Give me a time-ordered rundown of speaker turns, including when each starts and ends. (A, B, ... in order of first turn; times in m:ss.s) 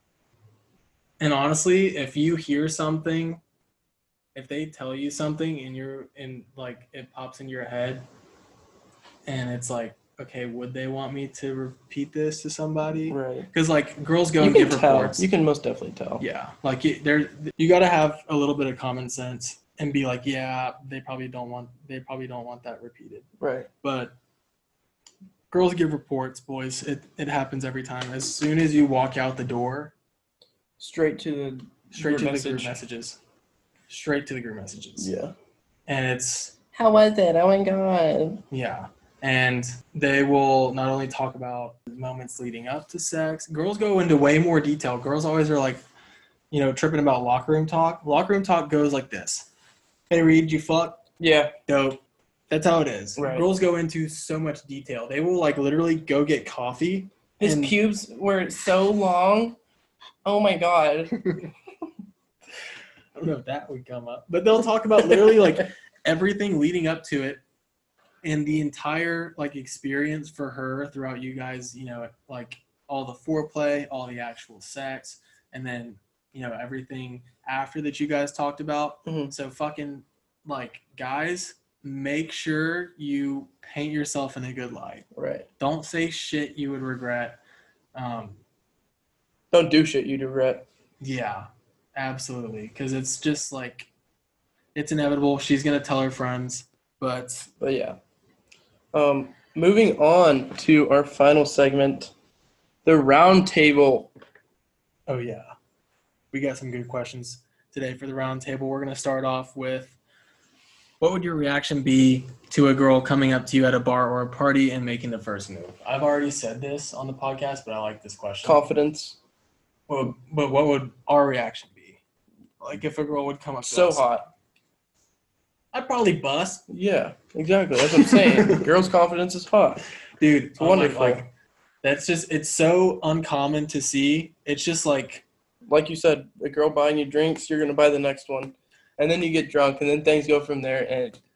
0:01.2-0:03.4 A
0:04.3-0:08.0 A
0:09.2-0:15.3 A
0:13.1-0:13.5 B
0:14.4-0:16.2 B
0:16.2-0:23.3 A
0:23.4-0:23.7 B
0:23.8-0:24.2 A
0:25.5-0:29.9 A
0:30.8-0:32.8 B
0:31.9-0:33.2 A
0:33.9-0:35.1 A
0:35.0-0:35.3 B
0:35.9-0:36.6 A
0:36.7-0:38.4 B
0:38.5-0:45.8 A
0:46.5-0:49.5 A
0:50.1-0:51.0 A
0:51.2-0:51.5 B
0:51.7-0:57.8 A
0:53.2-0:53.5 B
0:57.4-0:59.6 B
1:00.2-1:01.4 B
1:03.1-1:07.4 A
1:08.2-1:25.1 A
1:19.0-1:19.3 B
1:25.1-1:25.5 B
1:25.6-1:27.4 A
1:27.9-1:28.4 A
1:29.5-1:30.7 B
1:31.0-1:33.9 A
1:34.7-1:37.5 A
1:37.6-1:38.0 B
1:38.9-1:42.1 B
1:42.8-1:44.1 B
1:45.1-1:45.5 A
1:46.3-1:50.0 A
1:51.0-1:58.6 A
1:58.4-1:59.2 B
1:59.9-2:02.0 A
2:02.6-2:04.1 A
2:03.6-2:04.3 B
2:05.7-2:06.6 A
2:06.7-2:09.8 B
2:07.9-2:08.6 A
2:10.2-2:11.3 A
2:10.6-2:11.2 B
2:11.8-2:15.2 A
2:15.7-2:21.2 B